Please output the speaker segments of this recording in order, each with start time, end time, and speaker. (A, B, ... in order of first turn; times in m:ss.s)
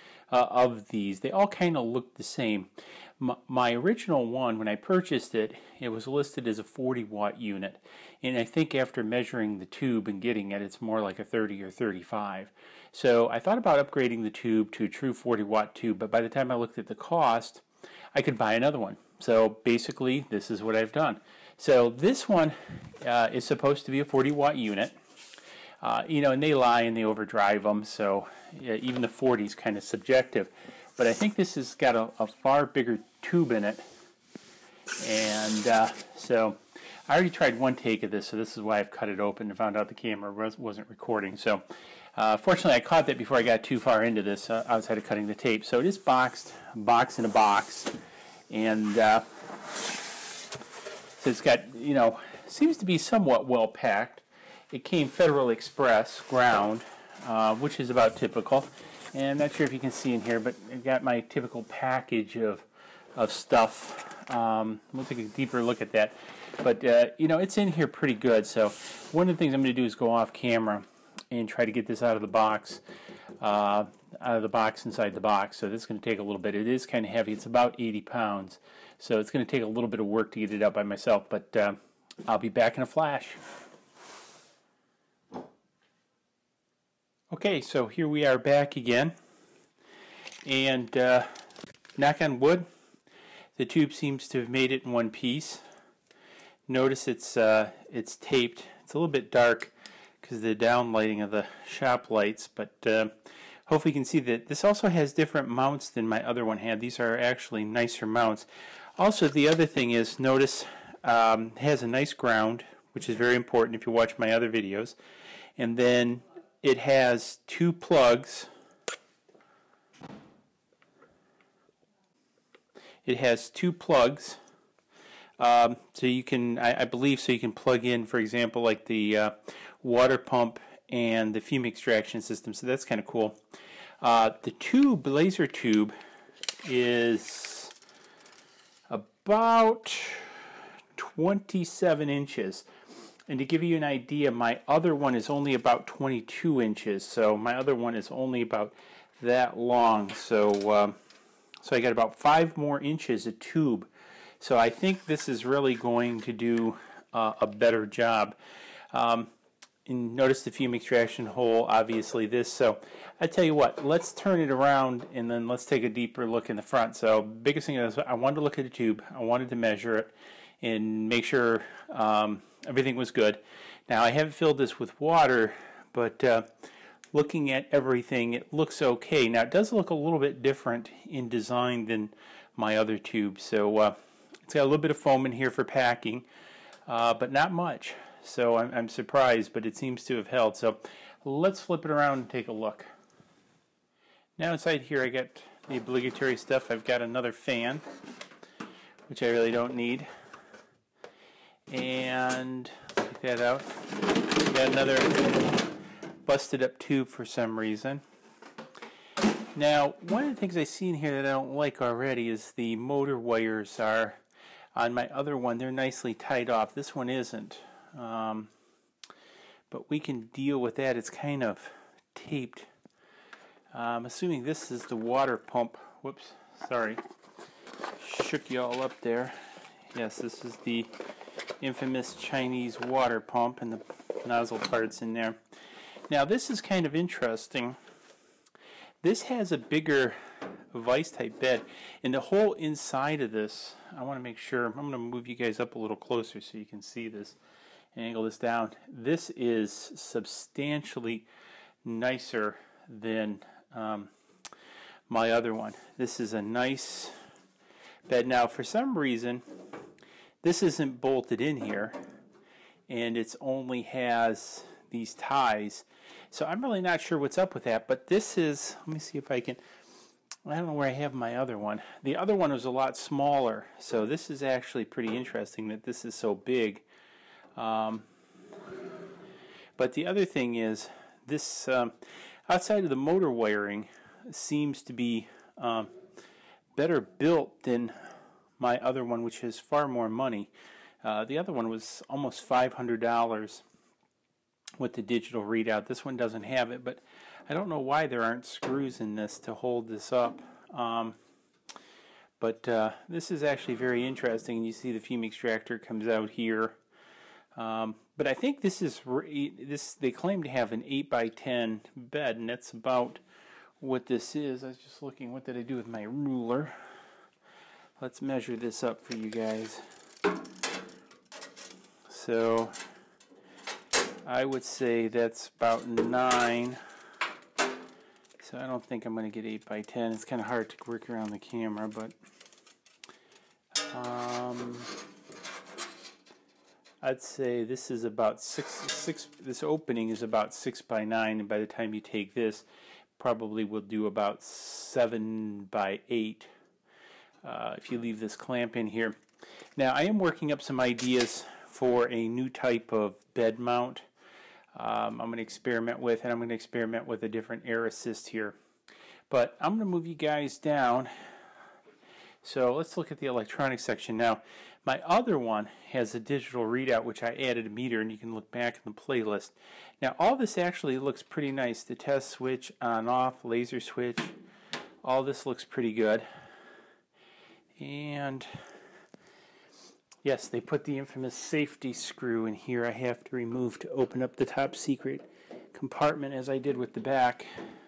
0:00.3-0:25.0 A
0:25.8-0:33.9 A
0:35.0-0:36.6 A
0:37.1-0:41.6 A
0:42.2-0:47.9 A
0:48.5-0:49.3 A
0:51.2-1:12.8 A
1:13.4-1:23.4 A
1:27.3-1:29.1 A
1:30.4-1:31.3 A
1:32.0-1:32.7 A
1:33.6-1:35.6 A
1:36.7-1:43.1 A
1:43.7-1:48.5 A
1:49.0-1:55.0 A
1:55.6-1:58.5 A
2:03.0-2:04.4 A
2:05.4-2:13.4 A
2:14.0-2:16.0 A
2:16.6-2:17.8 A
2:18.9-2:20.4 A
2:21.0-2:22.7 A
2:23.3-2:31.0 A
2:31.6-2:33.9 A
2:34.4-2:38.4 A
2:38.9-2:39.3 A
2:39.9-2:56.5 A
2:57.1-3:06.3 A
3:06.9-3:12.9 A
3:14.4-3:17.8 A
3:19.1-3:20.1 A
3:21.7-3:25.7 A
3:26.2-3:28.0 A
3:29.6-3:34.2 A
3:34.8-3:38.5 A
3:39.7-3:42.7 A
3:43.7-3:47.0 A
3:48.0-3:49.4 A
3:49.9-3:50.9 A
3:51.6-3:55.4 A
3:56.1-3:57.8 A
3:59.0-4:07.4 A
4:07.9-4:11.3 A
4:11.8-4:14.1 A
4:15.1-4:17.1 A
4:18.1-4:19.4 A
4:20.4-4:22.0 A
4:22.9-4:29.6 A
4:30.4-4:36.8 A
4:37.6-4:38.1 A
4:39.8-4:42.0 A
4:42.5-4:45.9 A
4:46.8-4:48.0 A
4:48.6-4:50.5 A
4:51.0-4:53.6 A
4:54.8-5:01.2 A
5:02.4-5:06.8 A
5:07.6-5:13.2 A
5:13.8-5:16.7 A
5:18.0-5:19.8 A
5:22.1-5:22.8 A
5:24.2-5:26.8 A
5:28.4-5:32.2 A
5:33.9-5:35.0 A
5:37.0-5:42.6 A
5:43.2-5:46.5 A
5:47.4-5:49.2 A
5:49.8-5:54.1 A
5:54.8-5:58.6 A
5:59.3-6:01.1 A
6:02.4-6:14.4 A
6:15.0-6:16.3 A
6:17.8-6:18.5 A
6:20.2-6:27.5 A